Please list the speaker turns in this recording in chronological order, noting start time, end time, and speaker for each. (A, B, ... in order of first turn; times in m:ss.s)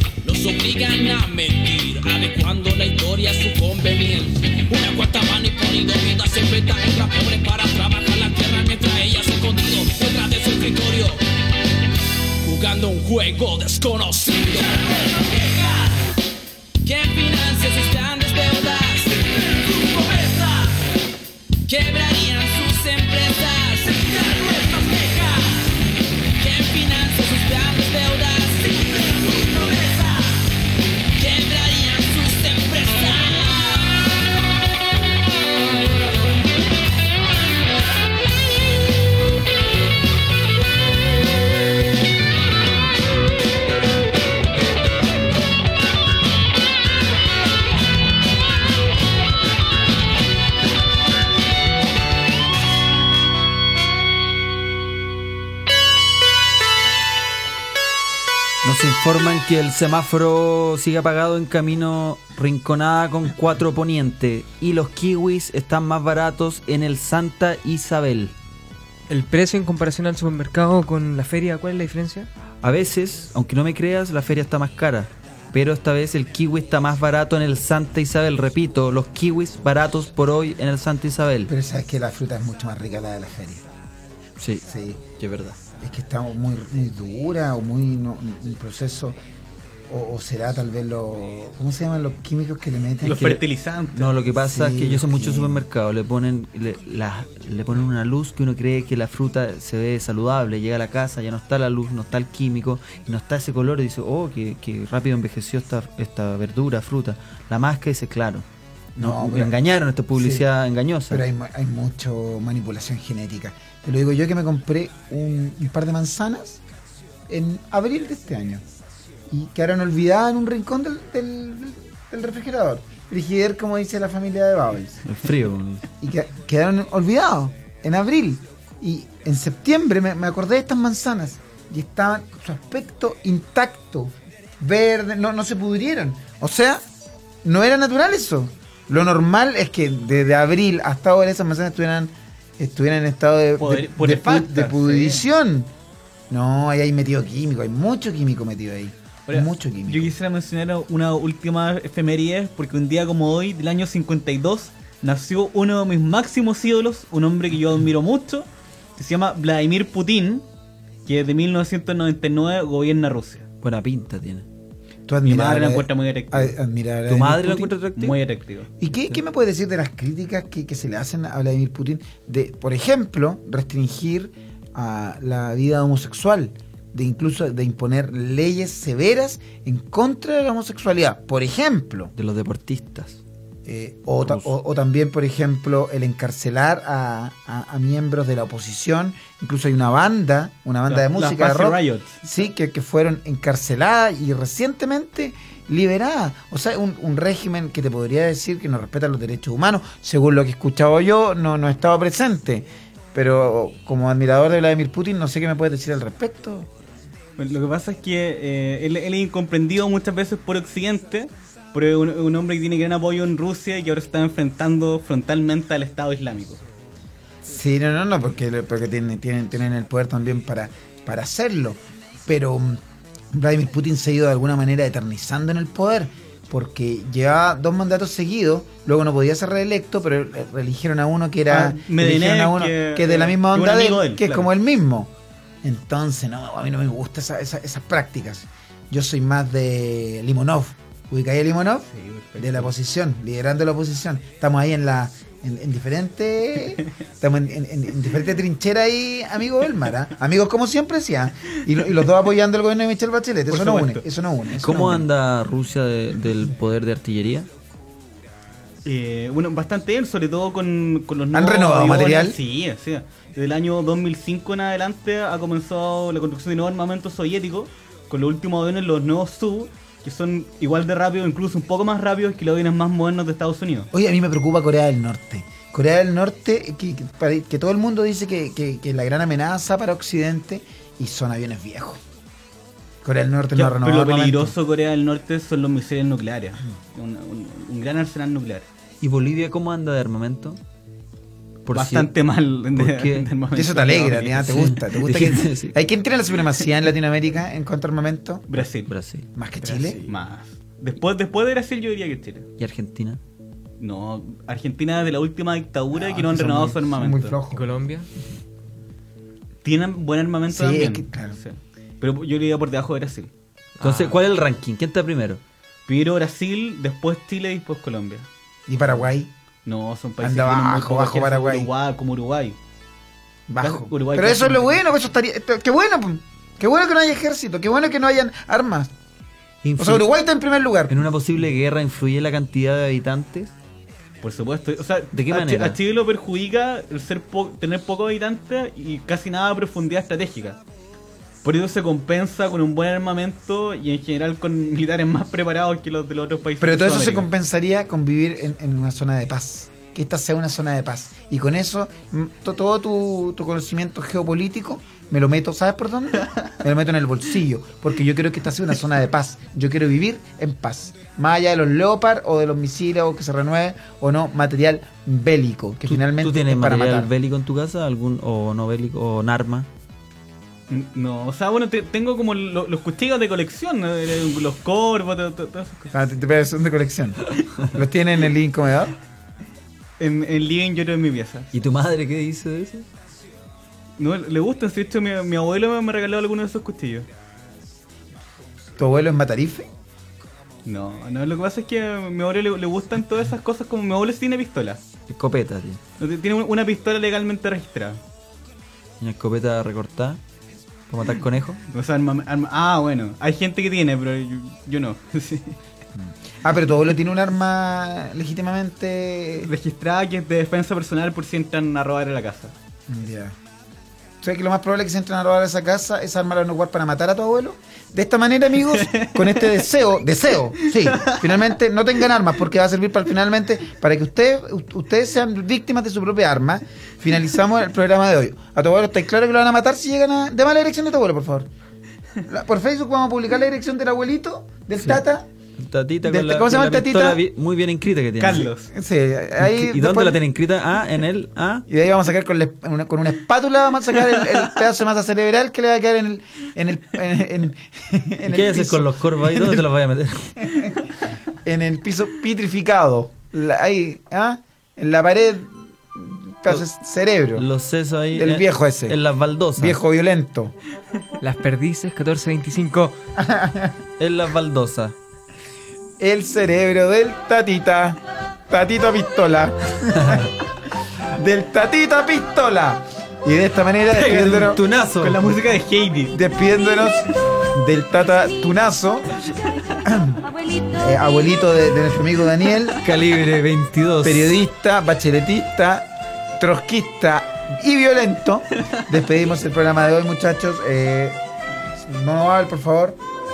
0:00.2-0:11.2 A
0:12.4-0:16.0 A
0:16.8-0:20.8 A
0:21.7-0:25.7 A
0:26.4-0:30.4 A
0:31.2-0:34.0 A
0:58.6-1:08.3 B
1:09.1-1:12.3 C
1:12.6-1:21.5 B
1:21.5-1:23.6 D
1:24.4-1:24.6 B
1:24.6-1:25.1 D
1:25.2-1:25.6 B
1:25.8-1:29.2 D
1:29.9-1:33.3 D
1:33.0-1:34.1 E
1:33.0-1:48.4 B
1:34.5-1:35.6 D
1:49.0-1:49.6 D
1:49.0-1:51.2 B
1:50.1-1:50.4 D
1:51.1-1:56.6 D
1:57.3-1:58.6 D
1:59.3-2:05.1 D
2:05.1-2:05.9 B
2:06.0-2:16.8 D
2:17.4-2:25.7 D
2:23.6-2:25.2 E
2:26.3-2:30.2 D
2:29.3-2:40.5 E
2:41.1-2:43.5 E
2:43.6-2:44.5 B
2:45.1-2:47.8 D
2:45.2-2:46.6 E
2:47.1-2:48.2 B
2:48.0-2:48.7 E
2:48.8-3:02.1 D
3:02.2-3:03.2 B
3:03.7-3:26.7 D
3:04.2-3:04.5 B
3:10.9-3:12.2 E
3:27.4-3:36.6 E
3:37.4-3:42.8 D
3:43.3-4:15.1 D
3:51.5-3:54.5 E
4:01.9-4:02.7 E
4:13.5-4:14.0 E
4:14.6-4:17.5 B
4:18.8-4:33.9 E
4:21.3-4:22.4 D
4:33.9-4:42.0 D
4:43.0-4:44.6 D
4:43.5-4:48.7 E
4:49.0-4:50.6 B
4:51.6-4:52.1 B
4:51.7-4:54.5 E
4:52.7-4:53.3 B
4:53.5-4:58.5 D
4:54.4-4:55.8 B
4:58.5-4:58.9 E
4:58.8-4:59.3 B
4:59.4-5:00.1 D
4:59.6-5:02.5 E
5:02.6-5:03.2 B
5:03.8-5:07.4 E
5:05.9-5:07.7 D
5:07.5-5:08.1 C
5:09.6-5:13.3 E
5:10.5-5:11.4 D
5:13.8-5:14.2 C
5:13.8-5:15.4 B
5:15.9-5:18.3 E
5:18.7-5:19.3 D
5:19.6-5:22.6 E
5:20.2-5:21.7 D
5:23.5-5:28.9 D
5:23.6-5:24.8 E
5:29.6-5:30.1 B
5:29.8-5:31.0 D
5:30.9-5:33.5 B
5:34.2-5:40.6 E
5:35.1-5:35.8 B
5:41.4-5:47.3 E
5:46.6-6:07.1 D
6:05.9-6:09.7 B
6:10.7-6:15.9 E
6:15.9-6:19.0 D
6:20.0-6:21.5 E
6:21.5-6:22.9 B
6:24.0-6:27.1 E
6:28.8-6:29.7 D
6:30.6-6:34.8 E
6:35.1-6:35.8 B
6:36.0-6:38.0 E
6:39.0-6:40.2 B
6:40.9-6:41.6 B
6:41.7-6:45.6 E
6:46.0-6:49.5 D
6:49.4-6:52.6 E
6:52.9-6:53.4 D
6:54.2-7:11.5 D
6:58.8-6:59.5 E
7:00.6-7:01.2 E
7:12.3-7:15.3 D
7:15.6-7:18.5 B
7:16.0-7:17.2 D
7:18.2-7:18.7 E
7:18.7-7:20.2 D
7:19.4-7:21.7 B
7:21.7-7:29.6 D
7:28.3-7:30.6 B
7:30.4-7:30.7 D
7:31.4-7:37.4 D
7:37.4-7:39.8 B
7:38.1-7:39.0 D
7:39.6-7:40.6 D
7:41.2-7:43.0 C
7:43.2-7:43.8 D
7:44.0-7:45.0 B
7:46.0-7:50.3 D
7:49.9-7:50.3 B
7:51.1-7:54.6 D
7:53.9-7:56.1 E
7:54.3-7:55.2 B
7:56.1-7:59.2 D
7:59.8-8:00.2 D
8:00.7-8:02.8 D
8:02.8-8:04.4 B
8:04.0-8:13.0 D